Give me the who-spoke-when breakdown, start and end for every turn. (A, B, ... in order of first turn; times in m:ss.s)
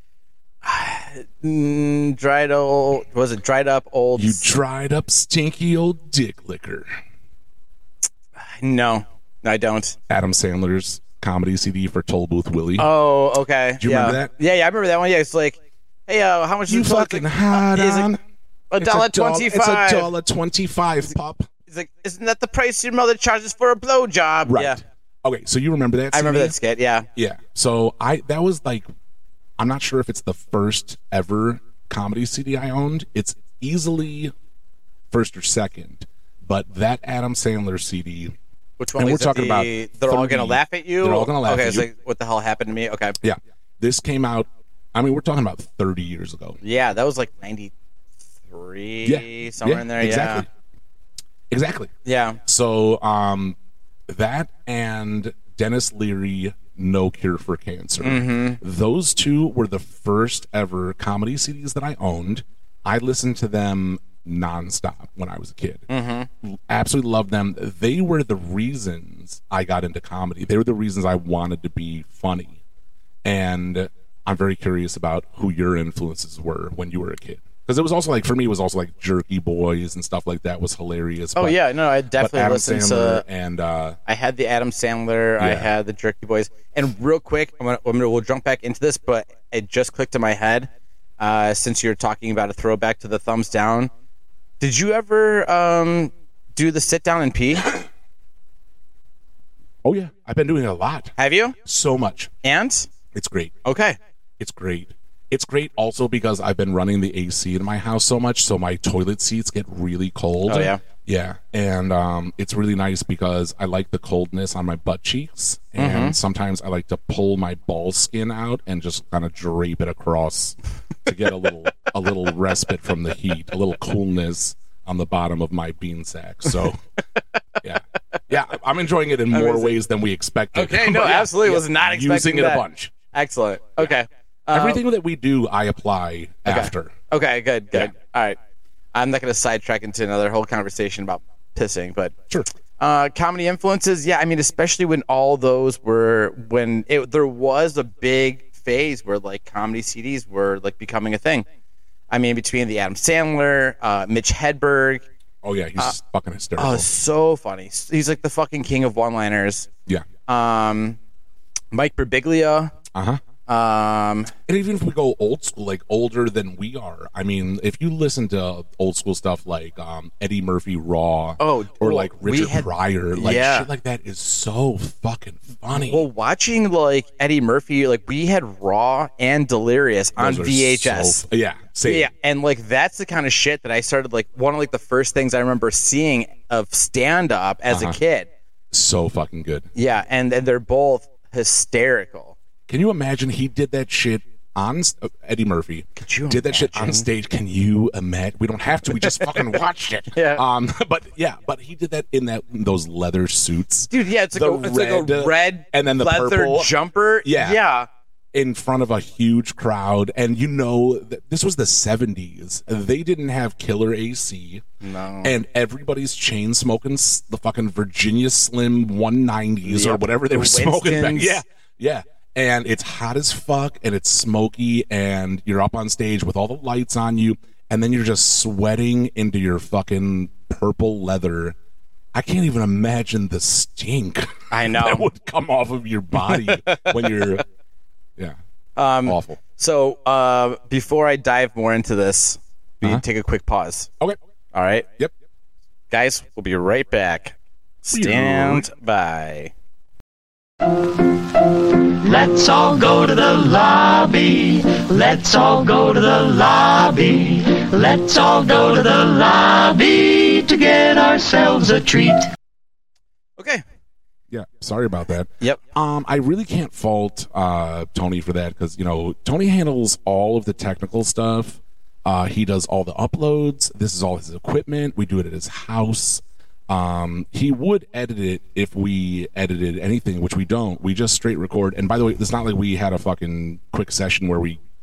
0:00.6-0:04.5 A
0:04.2-0:06.9 B
0:08.4-0:10.0 A
0:10.1-0:12.9 B
0:12.8-0:18.1 A
0:13.8-0:14.3 B
0:16.7-0:18.2 B
0:18.7-0:20.1 A
0:18.8-0:21.5 B
0:21.7-0:24.8 A
0:24.4-0:26.6 B
0:26.1-0:27.1 A
0:27.2-0:28.9 B
0:29.6-0:34.3 B
0:35.1-0:38.4 B
0:38.8-0:43.2 A
0:39.0-0:41.9 B
0:43.2-0:46.6 B
0:46.6-0:47.7 A
0:48.5-0:50.4 A
0:49.0-0:50.5 B
0:51.5-0:51.9 B
0:52.0-0:52.4 A
0:52.4-0:53.6 B
0:54.1-1:05.9 B
0:58.0-0:58.6 A
1:05.9-1:06.3 A
1:06.4-1:12.6 B
1:13.2-1:21.6 B
1:21.4-1:23.2 A
1:22.2-1:24.0 B
1:24.1-1:33.9 A
1:25.4-1:25.7 B
1:34.6-1:37.8 A
1:39.8-1:42.3 B
1:41.2-1:41.6 A
1:42.4-1:42.9 A
1:43.1-1:43.6 B
1:43.6-1:44.0 A
1:44.4-2:06.8 B
1:50.5-1:50.8 A
1:55.8-1:56.2 A
2:07.6-2:12.9 B
2:09.3-2:09.8 A
2:10.5-2:14.8 A
2:14.5-2:16.9 B
2:16.5-2:18.4 A
2:18.9-2:22.1 A
2:22.8-2:31.5 A
2:32.1-2:35.0 A
2:35.4-2:36.9 B
2:36.6-2:39.7 A
2:40.3-2:41.0 A
2:41.7-2:42.7 A
2:42.9-2:43.2 B
2:43.5-2:44.3 A
2:44.5-2:56.1 B
2:51.4-2:53.7 A
2:55.7-3:01.2 A
3:00.2-3:02.1 B
3:01.8-3:08.3 A
3:07.7-3:08.0 B
3:08.7-3:09.7 B
3:09.8-3:12.4 A
3:12.7-3:27.6 B
3:16.0-3:17.1 A
3:19.0-3:19.6 A
3:20.1-3:20.4 A
3:23.9-3:27.9 A
3:28.3-3:34.6 B
3:34.8-3:35.4 A
3:35.2-3:51.6 B
3:39.6-3:41.4 A
3:52.1-3:57.4 B
3:54.5-3:55.1 A
3:56.2-3:56.9 A
3:58.8-4:03.9 A
3:59.0-3:59.4 B
4:04.5-4:04.9 A
4:05.9-4:09.5 A
4:07.9-4:08.7 B
4:11.7-4:22.3 C
4:23.4-4:23.6 A
4:24.3-4:44.6 B